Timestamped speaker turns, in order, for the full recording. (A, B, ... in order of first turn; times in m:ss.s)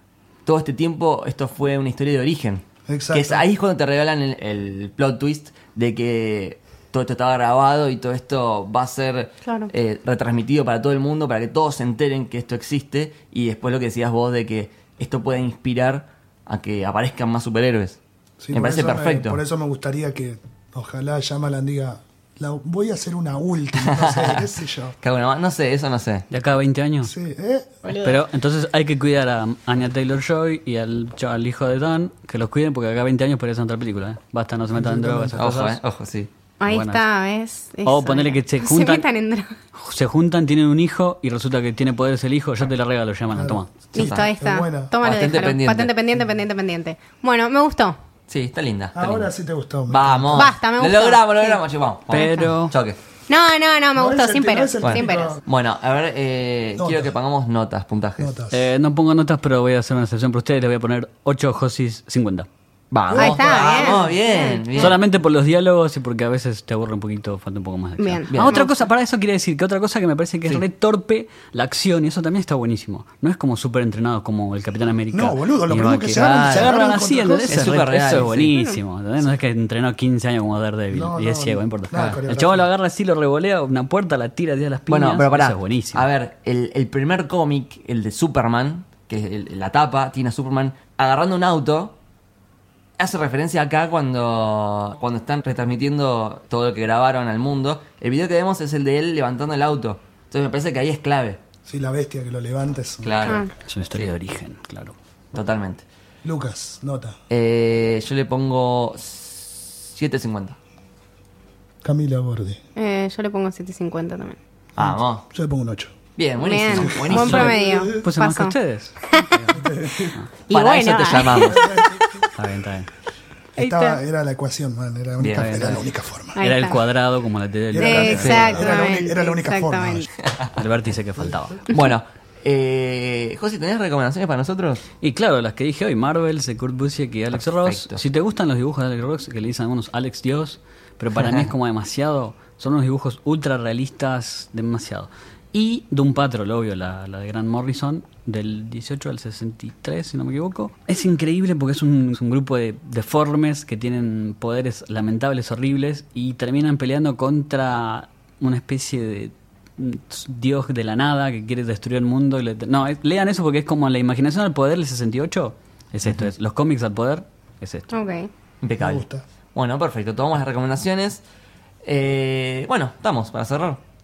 0:00.4-0:18.0 A
0:02.9-0:03.4 B
0:18.4-0:24.9 B
0:18.5-0:19.4 A
0:23.8-0:24.5 A
0:25.0-0:26.3 A
0:26.3-0:27.1 C
0:27.0-0:27.7 B
0:27.8-0:28.2 D
0:28.0-0:35.8 C
0:34.7-0:35.4 B
0:35.3-0:36.3 A
0:36.6-0:39.5 D
0:36.6-0:37.0 C
0:37.8-0:39.0 C
0:39.7-0:43.7 C
0:43.3-0:44.9 B
0:43.9-0:48.0 D
0:44.0-0:44.3 A
0:45.0-0:45.9 A
0:48.3-0:49.3 A
0:48.9-0:50.5 B
0:49.9-0:53.0 A
0:50.3-0:51.6 D
0:52.1-0:52.7 C
0:52.1-0:52.5 D
0:53.3-0:55.4 D
0:53.9-0:55.4 B
0:54.8-0:58.3 A
0:56.8-0:57.1 B
0:58.2-0:58.7 B
0:58.5-1:02.5 C
1:02.9-1:05.0 A
1:03.1-1:05.0 D
1:03.1-1:03.5 C
1:04.8-1:26.0 C
1:08.0-1:08.7 D
1:08.3-1:08.6 A
1:15.1-1:17.8 B
1:16.1-1:16.8 A
1:17.5-1:18.5 A
1:18.5-1:18.8 D
1:20.9-1:22.7 B
1:24.9-1:31.9 A
1:33.0-1:41.4 A
1:41.6-1:43.5 B
1:43.0-1:44.1 A
1:43.6-1:44.9 C
1:45.3-1:45.8 A
1:46.2-1:47.2 B
1:47.3-1:50.6 A
1:51.8-1:52.6 B
1:52.8-1:54.4 D
1:54.8-1:55.2 A
1:54.8-1:56.0 B
1:56.2-1:57.6 A
1:56.4-1:58.6 D
1:56.7-1:58.0 B
1:57.1-1:59.5 C
1:59.1-1:59.5 D
1:59.5-2:00.2 B
2:00.5-2:01.9 D
2:00.5-2:01.9 A
2:01.4-2:02.3 B
2:02.3-2:02.9 C
2:03.6-2:04.0 D
2:03.6-2:06.4 B
2:05.2-2:05.8 A
2:05.3-2:08.7 C
2:06.3-2:06.8 D
2:07.7-2:10.1 B
2:07.8-2:10.1 D
2:08.2-2:08.7 A
2:10.5-2:11.6 C
2:11.2-2:11.6 B
2:11.7-2:14.8 A
2:15.0-2:47.9 C
2:17.4-2:18.0 A
2:47.9-2:48.3 D
2:48.6-2:51.2 A
2:48.8-2:49.2 B
2:51.8-2:53.8 A